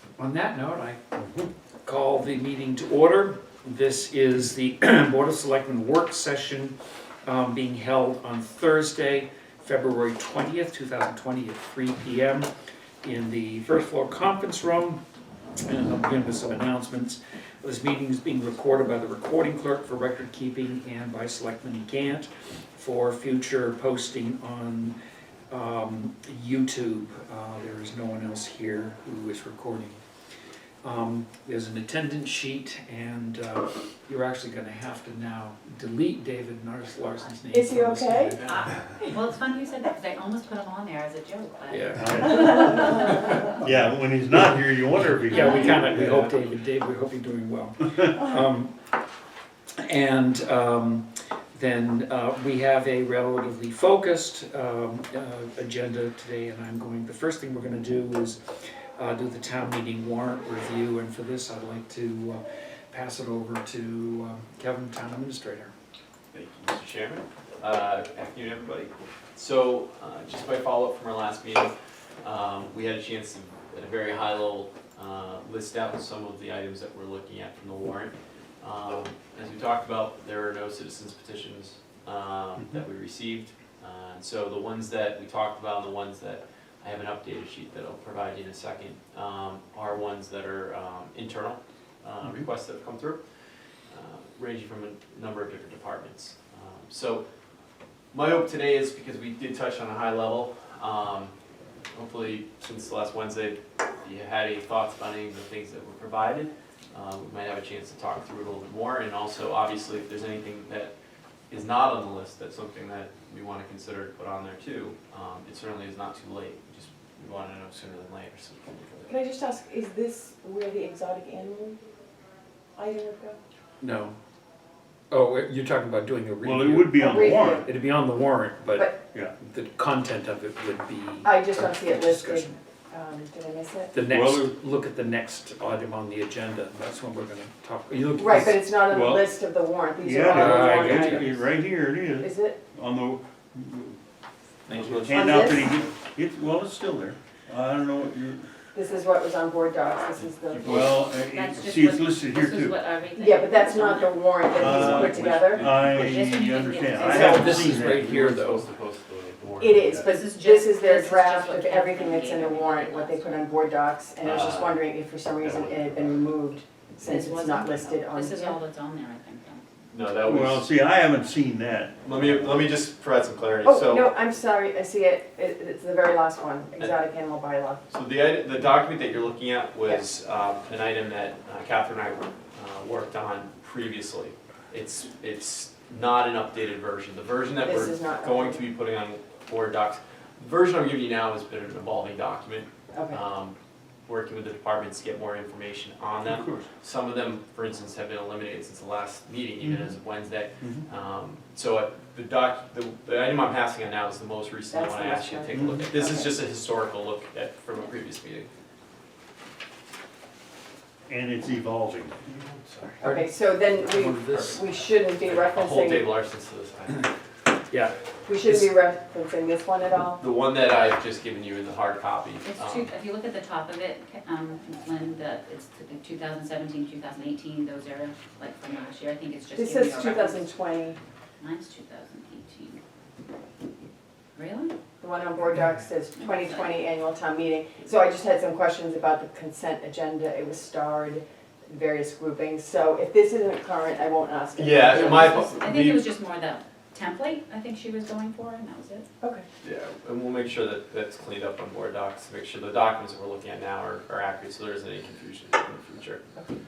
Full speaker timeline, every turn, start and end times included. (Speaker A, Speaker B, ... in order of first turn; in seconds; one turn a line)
Speaker A: 0.2-1.0
Speaker B: 1.2-1.5
Speaker A: 1.8-12.5
Speaker A: 13.0-15.0
Speaker A: 15.7-24.9
Speaker A: 25.5-30.0
Speaker A: 30.8-38.5
Speaker C: 37.5-38.4
Speaker D: 38.4-43.6
Speaker A: 41.7-42.5
Speaker B: 42.0-43.0
Speaker B: 43.6-46.3
Speaker A: 45.2-48.7
Speaker D: 45.3-45.8
Speaker A: 49.8-65.7
Speaker E: 66.3-93.2
Speaker E: 93.9-97.2
Speaker E: 98.1-101.3
Speaker E: 101.9-110.9
Speaker E: 111.5-119.1
Speaker C: 119.1-121.8
Speaker C: 122.8-123.4
Speaker A: 123.8-124.2
Speaker A: 125.1-127.1
Speaker B: 126.4-127.7
Speaker C: 126.9-127.7
Speaker A: 127.6-132.6
Speaker C: 128.8-129.0
Speaker C: 131.2-133.9
Speaker A: 133.9-138.6
Speaker B: 134.0-134.5
Speaker C: 138.2-141.4
Speaker B: 138.9-139.3
Speaker B: 140.0-144.0
Speaker A: 140.3-141.3
Speaker C: 142.2-142.6
Speaker E: 144.7-145.3
Speaker B: 144.8-148.4
Speaker C: 145.1-145.8
Speaker C: 148.7-151.1
Speaker E: 150.2-151.0
Speaker B: 150.6-152.8
Speaker D: 151.0-154.8
Speaker C: 153.2-155.8
Speaker B: 154.5-158.1
Speaker E: 154.7-156.0
Speaker D: 155.8-157.8
Speaker A: 157.0-158.7
Speaker E: 157.7-160.1
Speaker C: 159.6-168.6
Speaker D: 160.0-163.7
Speaker E: 164.2-164.8
Speaker E: 165.4-166.2
Speaker D: 167.0-169.6
Speaker E: 169.9-170.7
Speaker B: 170.2-172.0
Speaker E: 172.0-174.1
Speaker C: 173.6-177.8
Speaker E: 177.9-208.5
Speaker C: 187.6-188.7
Speaker C: 192.9-193.2
Speaker B: 196.2-196.7
Speaker B: 199.6-199.9
Speaker C: 204.7-206.4
Speaker B: 205.5-205.9
Speaker B: 211.1-212.2
Speaker E: 212.2-213.0
Speaker C: 213.0-216.1
Speaker A: 213.0-214.6
Speaker E: 215.2-217.1
Speaker A: 217.7-218.7
Speaker C: 218.3-220.2
Speaker E: 220.2-222.9
Speaker D: 222.4-230.5
Speaker C: 229.6-231.0
Speaker D: 231.4-232.8
Speaker D: 234.4-234.7
Speaker C: 235.0-245.5
Speaker D: 236.2-236.7
Speaker E: 244.6-246.0
Speaker D: 244.9-249.1
Speaker C: 249.2-249.5
Speaker E: 249.6-256.2